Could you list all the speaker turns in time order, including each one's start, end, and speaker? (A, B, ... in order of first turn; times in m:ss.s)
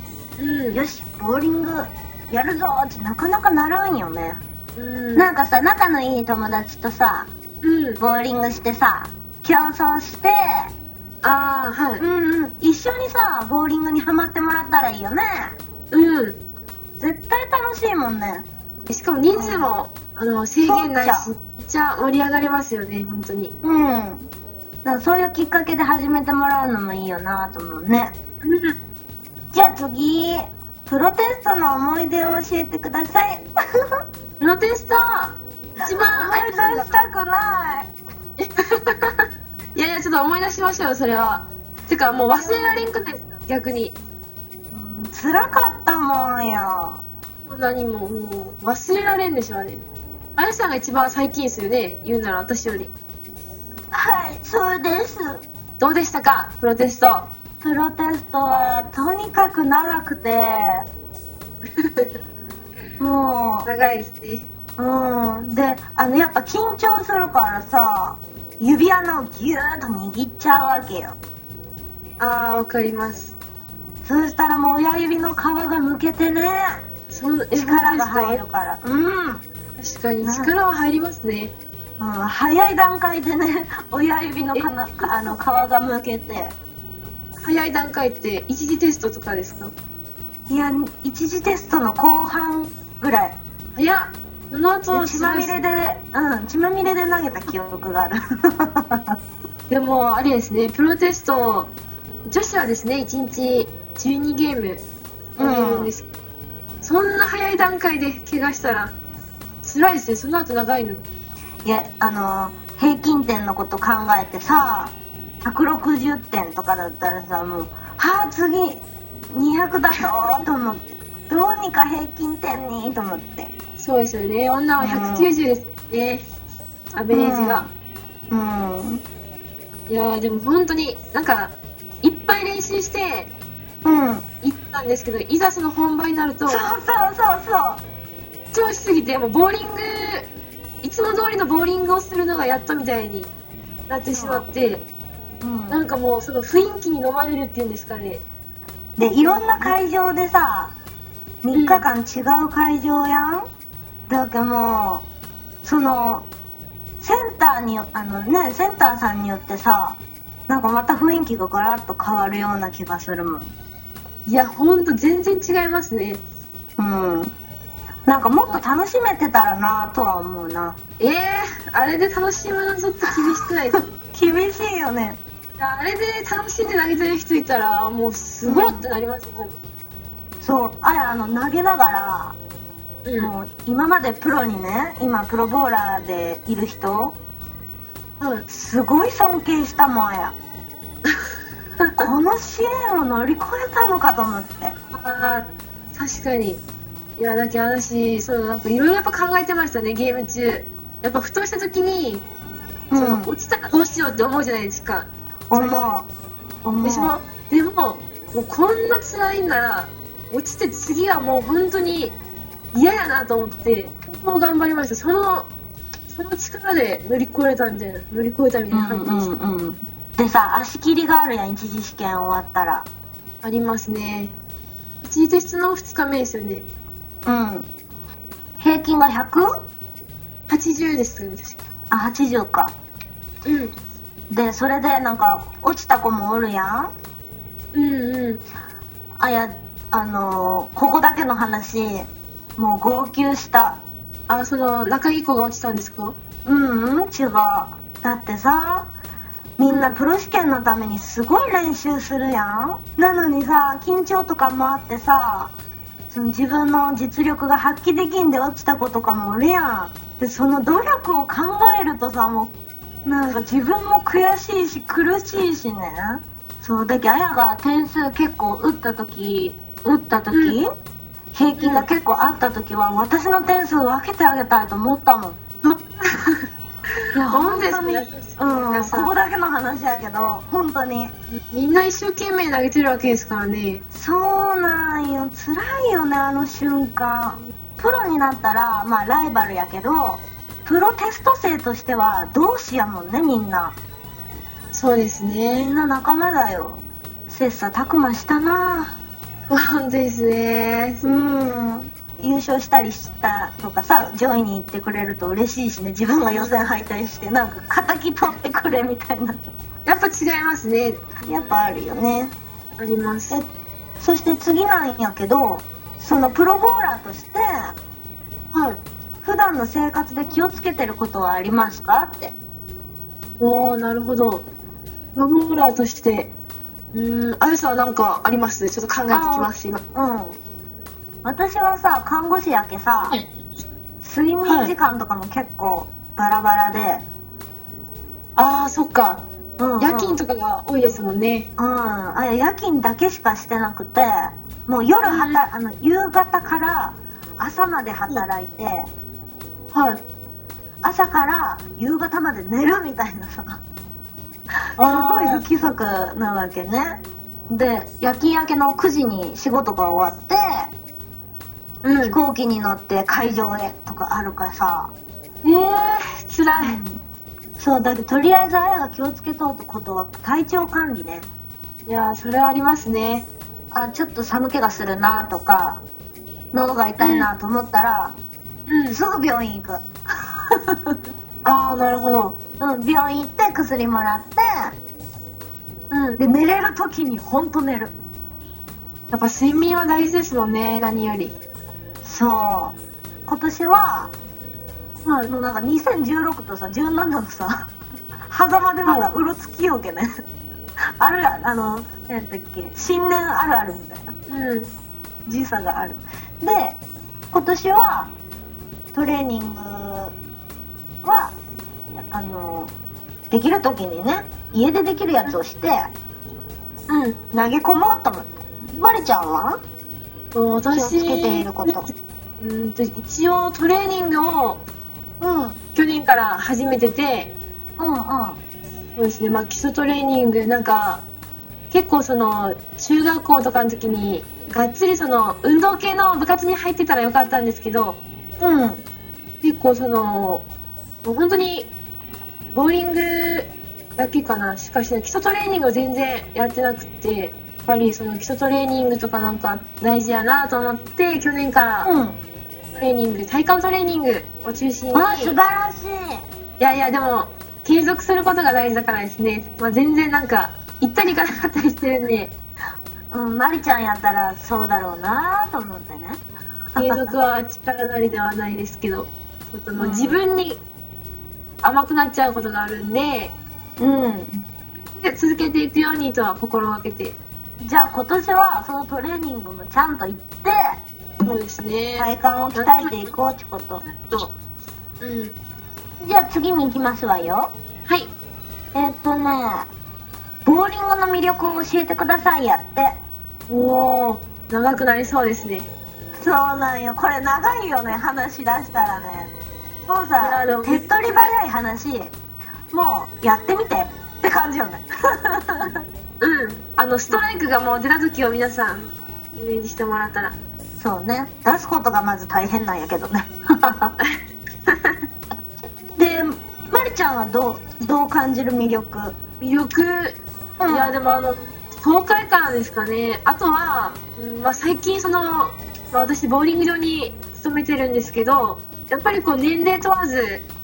0:00.4-0:00.8 A
0:00.7-0:04.4 B
0:04.8-0:05.3 A
0:05.2-0:07.3 B
0:07.6-0:08.0 A
0:08.0-0:10.7 B
0:11.2-0:12.0 A
0:12.0-0:15.6 B
0:15.9-0:16.4 A
0:17.0-0:18.4 B
0:18.9-0:23.5 A
0:19.3-0:19.7 B
0:20.6-0:21.3 B
0:23.6-0:24.3 B
0:24.8-0:28.2 B
0:28.4-0:28.8 A
0:29.5-0:33.5 B
0:34.4-0:37.0 A
0:35.8-0:37.9 B
0:38.4-0:44.0 A
0:42.3-0:42.9 B
0:44.7-0:47.0 B
0:47.4-0:49.8 A
0:50.4-0:52.9 A
0:53.9-0:55.4 B
0:55.8-0:57.3 A
0:57.6-1:00.9 B
1:01.8-1:02.1 A
1:03.0-1:03.7 B
1:03.6-1:04.5 A
1:04.8-1:11.2 B
1:12.2-1:13.4 A
1:14.0-1:16.8 B
1:17.1-1:18.4 A
1:17.5-1:19.4 B
1:19.8-1:21.5 A
1:20.2-1:20.5 B
1:22.0-1:26.5 B
1:24.5-1:25.3 A
1:27.4-1:29.7 A
1:30.5-1:33.4 B
1:33.8-1:35.6 A
1:34.9-1:39.2 B
1:39.7-1:41.7 A
1:42.2-1:44.8 A
1:45.4-1:46.1 A
1:45.4-1:45.9 B
1:46.8-1:48.9 A
1:49.6-1:51.0 A
1:51.6-2:03.5 B
2:03.8-2:06.2 A
2:04.8-2:05.3 B
2:06.9-2:07.7 A
2:07.1-2:07.7 B
2:08.3-2:09.0 B
2:09.9-2:13.3 A
2:13.8-2:14.2 B
2:14.4-2:16.7 A
2:16.5-2:17.8 B
2:18.5-2:20.3 A
2:20.8-2:23.3 A
2:23.9-2:24.8 A
2:24.1-2:24.5 B
2:25.4-2:25.8 B
2:25.7-2:28.2 A
2:29.0-2:30.7 B
2:29.3-2:29.7 A
2:31.4-2:33.5 B
2:31.5-2:31.8 A
2:34.1-2:35.0 B
2:35.6-2:36.3 B
2:37.0-2:43.5 B
2:44.2-2:46.2 A
2:46.8-2:47.3 B
2:48.0-2:50.8 B
2:51.0-2:53.8 A
2:54.0-2:55.2 B
2:55.6-2:59.6 A
2:58.4-2:58.8 B
3:00.4-3:02.4 B
3:03.0-3:03.3 A
3:03.2-3:07.2 B
3:08.2-3:08.4 A
3:08.5-3:10.4 B
3:11.8-3:12.1 A
3:12.0-3:14.8 B
3:14.9-3:16.6 A
3:17.2-3:22.2 A
3:22.9-3:23.3 B
3:22.9-3:26.0 A
3:25.5-3:26.1 B
3:26.6-3:27.1 B
3:26.8-3:32.2 A
3:32.7-3:35.5 A
3:36.1-3:39.3 A
3:38.7-3:42.9 B
3:43.4-3:44.3 A
3:45.0-3:46.7 A
3:47.2-3:47.7 B
3:48.6-3:49.5 B
3:50.5-3:51.6 A
3:51.9-3:52.8 B
3:53.4-3:53.7 A
3:54.3-3:56.9 B
3:57.7-3:58.4 A
3:59.2-4:03.8 B
4:04.3-4:06.2 A
4:06.4-4:08.9 B
4:09.6-4:15.5 B
4:09.7-4:09.9 A
4:16.1-4:22.5 B
4:23.0-4:30.7 B
4:30.3-4:30.6 A
4:31.3-4:35.4 B
4:31.6-4:31.9 A
4:35.6-4:39.1 A
4:37.1-4:41.1 B
4:41.5-4:43.8 A
4:43.9-4:53.8 B
4:54.7-4:55.7 A
4:55.5-4:59.0 B
4:59.5-5:01.1 A
5:01.0-5:09.5 B
5:09.8-5:11.6 A
5:11.2-5:12.3 B
5:12.8-5:13.4 A
5:14.0-5:17.8 B
5:18.5-5:18.8 A
5:19.2-5:22.3 B
5:23.4-5:24.4 A
5:25.1-5:26.3 A
5:26.9-5:29.8 A
5:29.1-5:30.4 B
5:31.2-5:33.2 B
5:34.0-5:37.0 B
5:34.4-5:34.7 A
5:38.4-5:39.2 A
5:39.6-5:40.2 B
5:39.8-5:41.5 A
5:41.6-5:48.9 B
5:45.0-5:45.4 A
5:49.7-5:50.0 A
5:50.8-5:53.6 B
5:54.8-5:55.4 A
5:54.8-6:00.7 B
6:01.8-6:02.2 A
6:02.0-6:04.9 B
6:05.4-6:06.8 A
6:06.6-6:07.0 B
6:07.6-6:11.3 B
6:11.9-6:13.3 A
6:13.7-6:15.8 B
6:16.5-6:18.2 B
6:17.0-6:17.3 A
6:18.7-6:19.0 A
6:18.9-6:21.0 B
6:21.4-6:22.4 A
6:22.6-6:24.8 B
6:25.9-6:26.2 A
6:26.2-6:27.9 B
6:29.1-6:31.4 A
6:32.0-6:34.1 B
6:35.0-6:35.3 A
6:35.3-6:37.7 B
6:38.3-6:40.2 B
6:38.8-6:39.1 A
6:41.0-6:44.1 B
6:44.3-6:44.7 A
6:45.2-6:46.8 B
6:47.3-6:48.1 B
6:48.9-6:50.1 B
6:51.0-6:51.4 B
6:51.9-6:52.7 B
6:53.3-6:55.9 B
6:56.9-6:57.2 A
6:57.3-6:59.6 B
7:00.3-7:01.8 A
7:00.7-7:01.9 B
7:02.4-7:04.6 A
7:05.2-7:05.6 B
7:05.7-7:07.4 A
7:07.8-7:08.4 B
7:09.0-7:11.0 A
7:11.7-7:18.0 A
7:18.4-7:18.8 B
7:19.4-7:20.4 A
7:21.0-7:21.7 A
7:22.5-7:31.9 A
7:31.8-7:32.2 B
7:32.7-7:35.4 A
7:34.9-7:36.2 B
7:36.6-7:42.3 A
7:43.1-7:46.2 B
7:46.7-7:47.1 B
7:46.8-7:50.6 A
7:49.8-7:50.2 B
7:51.6-7:53.4 A
7:53.8-7:54.4 B
7:54.8-7:57.2 A
7:57.6-8:00.8 B
8:01.2-8:03.1 A
8:02.0-8:03.8 B
8:03.8-8:04.3 A
8:05.0-8:05.4 A
8:06.0-8:07.6 B
8:07.8-8:08.1 A
8:08.7-8:09.7 B
8:10.4-8:13.0 B
8:13.5-8:15.7 A
8:16.1-8:19.3 B
8:19.9-8:22.1 B
8:20.2-8:21.3 A
8:22.7-8:25.8 B
8:26.2-8:30.4 A
8:30.8-8:34.0 B
8:34.7-8:34.9 A
8:36.0-8:39.2 B
8:39.4-8:50.5 A
8:40.6-8:40.9 B